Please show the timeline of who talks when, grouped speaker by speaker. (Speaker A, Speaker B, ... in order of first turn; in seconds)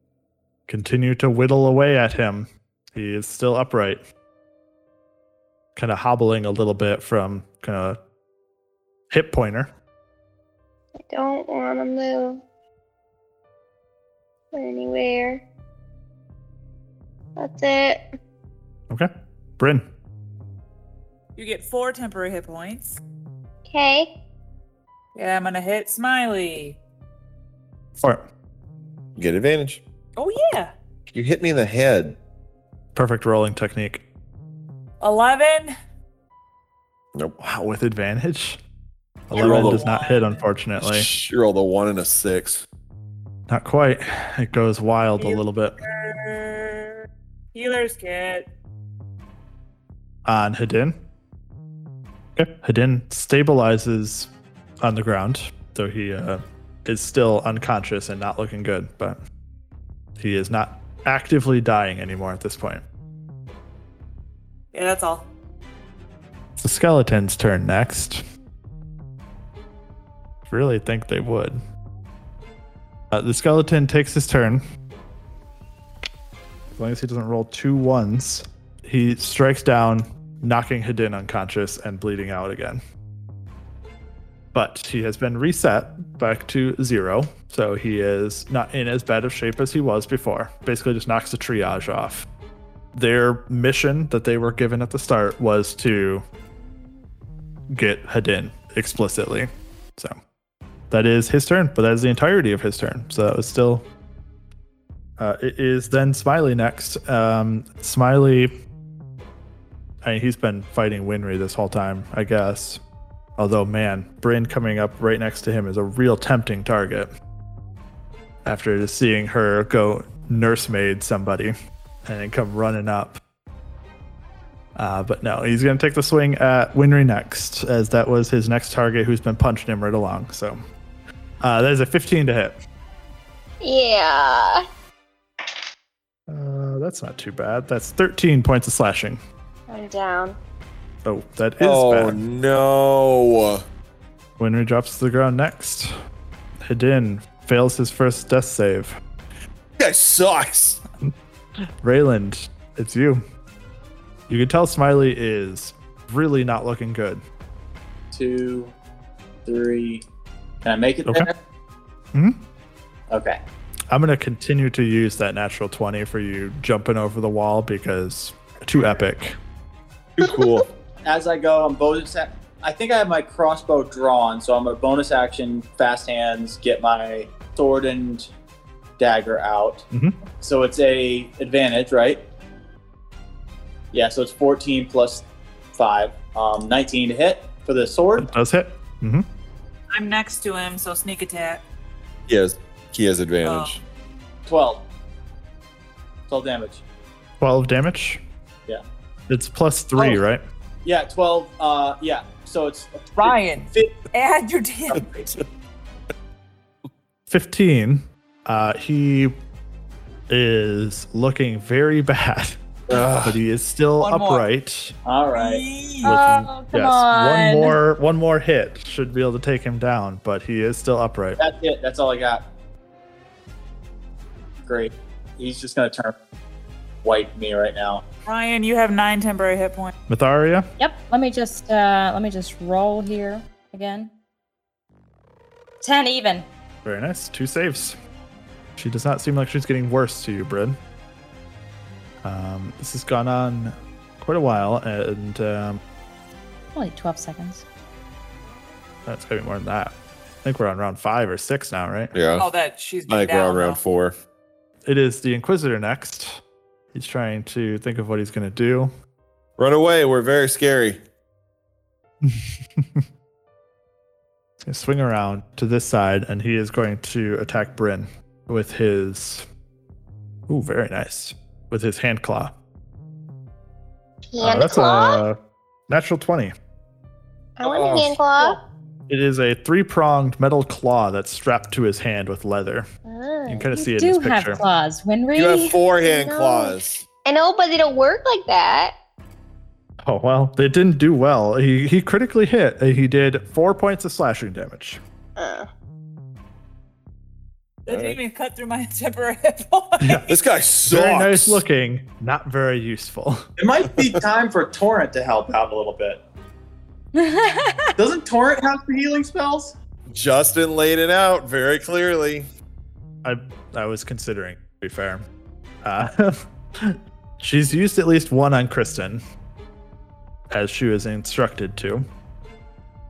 Speaker A: 0.7-4.0, 5.7-8.0, 9.1-9.7, 18.9-19.8, 28.0-28.2, 32.9-34.0, 37.4-38.6, 39.3-41.1, 43.5-45.7, 50.2-51.0, 52.4-54.3, 54.8-59.2, 60.2-62.8, 66.6-68.2, 70.5-71.6, 73.1-74.6, 76.8-82.8, 84.5-92.2, 92.9-96.2, 97.7-100.1, 100.9-103.8, 105.2-108.5, 110.0-112.8, 113.4-117.1, 118.4-121.5, 122.0-123.2, 124.8-130.6, 131.4-132.6, 136.3-139.2, 141.0-142.2, 144.4-145.9, 146.7-148.9, 151.8-153.2, 154.3-157.2, 162.1-162.4, 163.9-169.3, 179.9-180.2, 188.2-189.2, 197.4-198.2, 199.3-200.4, 207.3-209.3, 210.3-212.6, 213.2-214.9, 216.0-221.4, 230.1-230.7, 236.8-237.9, 238.8-240.8, 242.2-245.8, 249.1-252.1, 254.8-256.4, 256.9-258.9, 262.2-263.0, 264.6-269.4, 270.5-272.5, 274.4-275.4, 275.9-276.5, 279.1-282.9, 283.5-284.6, 290.0-295.0, 300.9-303.4, 313.2-315.2, 315.8-319.2, 320.5-322.0
Speaker B: 11.1-12.4, 14.5-15.4, 17.4-18.0, 23.7-24.1, 133.6-134.6, 139.7-140.4, 274.3-275.2, 277.6-278.6, 283.1-283.6, 286.0-288.9, 295.4-295.7
Speaker C: 21.4-23.0, 25.1-26.8, 30.2-30.7, 35.0-35.7, 39.3-40.4, 45.2-47.0, 47.5-48.5, 64.7-65.2, 189.9-191.6, 193.4-193.8, 203.2-205.1, 214.0-214.4, 215.3-216.1, 228.2-229.9, 252.4-253.8, 277.7-278.6, 297.9-300.4
Speaker D: 29.1-29.8, 31.1-32.2, 39.3-39.8, 40.8-42.6, 141.6-143.6, 149.8-150.8, 170.2-170.7, 192.3-193.8, 212.9-213.4, 252.1-252.5, 253.1-254.1, 259.6-261.0, 285.3-287.0, 297.9-298.2, 300.3-301.6, 310.1-312.5
Speaker E: 158.1-158.7, 159.4-160.0, 160.6-161.3, 163.1-163.4, 171.0-178.3, 179.0-179.8, 180.4-182.2, 183.9-188.3, 194.4-194.8, 196.3-196.8, 199.9-200.2, 200.8-204.0, 215.0-215.6, 221.4-222.4, 224.6-226.1, 227.0-228.0, 303.6-306.2, 308.0-309.7
Speaker F: 216.0-217.8, 230.8-234.1, 235.8-236.5, 246.7-247.6, 283.6-285.8, 307.1-307.9